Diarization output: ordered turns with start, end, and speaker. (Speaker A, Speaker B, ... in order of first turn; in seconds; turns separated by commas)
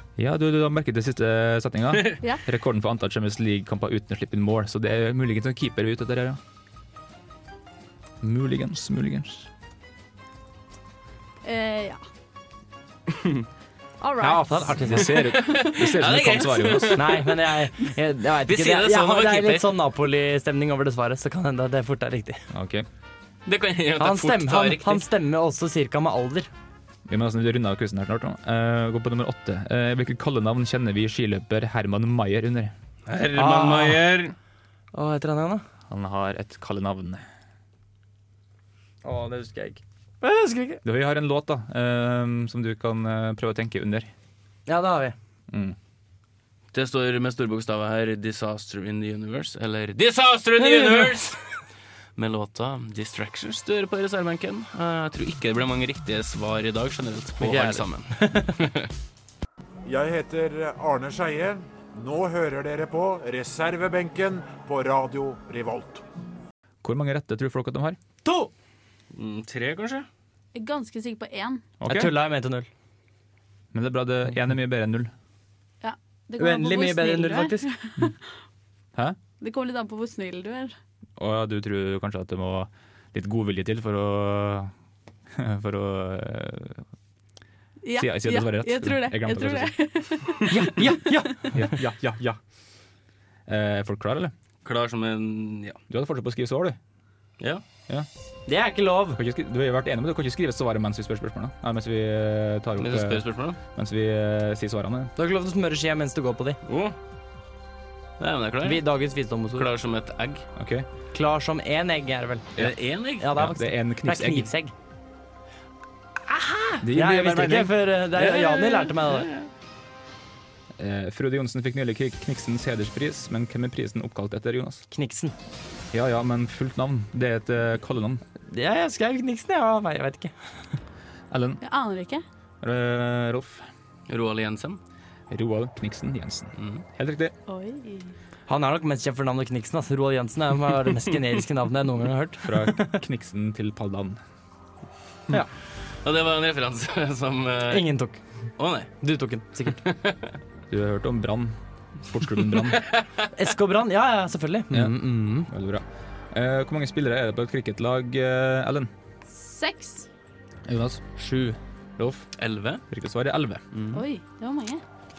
Speaker A: 0.2-6.4, Speaker A: 8.2-9.5, Speaker B: 11.4-12.0, Speaker B: 14.0-14.8, Speaker C: 14.2-15.1, Speaker A: 14.3-17.1, Speaker D: 15.1-17.4, Speaker C: 16.9-22.4, Speaker D: 18.5-19.8, Speaker A: 22.5-22.9, Speaker D: 23.5-25.1, Speaker C: 24.0-26.5, Speaker A: 27.1-32.7, Speaker D: 33.1-34.4, Speaker C: 33.4-34.0, Speaker C: 34.9-35.6, Speaker A: 35.9-37.2, Speaker C: 39.0-40.8, Speaker A: 40.8-44.1, Speaker C: 44.7-45.1, Speaker A: 45.5-45.8, Speaker D: 46.7-51.4, Speaker C: 50.6-51.1, Speaker D: 52.1-58.9, Speaker C: 57.4-58.5, Speaker E: 59.9-66.0, Speaker A: 66.8-68.0, Speaker C: 68.2-68.5, Speaker D: 69.1-70.1, Speaker B: 70.5-71.6, Speaker A: 71.8-72.1, Speaker C: 71.9-72.7, Speaker A: 73.7-75.1, Speaker B: 75.8-78.1, Speaker C: 76.4-77.7, Speaker B: 79.4-80.7, Speaker A: 81.2-84.7, Speaker A: 85.3-86.8, Speaker B: 87.8-90.6, Speaker A: 88.0-89.8, Speaker C: 90.5-91.8, Speaker A: 91.5-92.4, Speaker A: 93.5-94.3, Speaker D: 94.6-95.8, Speaker A: 95.9-96.8, Speaker C: 98.5-99.2, Speaker A: 99.1-105.1, Speaker D: 102.8-103.6, Speaker C: 105.2-106.6, Speaker D: 106.7-107.0, Speaker D: 108.2-108.8, Speaker C: 108.6-109.7, Speaker D: 109.5-110.5, Speaker A: 110.6-110.9, Speaker C: 111.1-112.5, Speaker D: 112.6-113.3, Speaker C: 113.2-114.7, Speaker A: 113.3-114.5, Speaker C: 116.3-119.3, Speaker A: 116.8-117.8, Speaker D: 118.1-119.5, Speaker A: 120.8-124.8, Speaker C: 124.9-125.3, Speaker A: 125.9-128.2, Speaker C: 128.5-130.3, Speaker A: 131.3-131.6, Speaker B: 131.6-132.2, Speaker A: 132.6-133.7, Speaker D: 134.1-134.8, Speaker A: 135.3-137.3, Speaker D: 136.6-136.8, Speaker B: 137.5-138.1, Speaker C: 138.5-143.0, Speaker A: 142.4-144.2, Speaker D: 146.0-147.8, Speaker C: 147.7-148.2, Speaker D: 148.6-148.9, Speaker C: 149.0-149.8, Speaker D: 149.8-150.3, Speaker A: 150.7-152.8, Speaker D: 152.5-153.1, Speaker C: 153.3-155.5, Speaker A: 154.7-158.9, Speaker B: 159.3-160.1, Speaker A: 160.7-162.3, Speaker D: 162.4-162.8, Speaker A: 162.9-163.6, Speaker D: 163.7-164.0, Speaker B: 163.9-164.8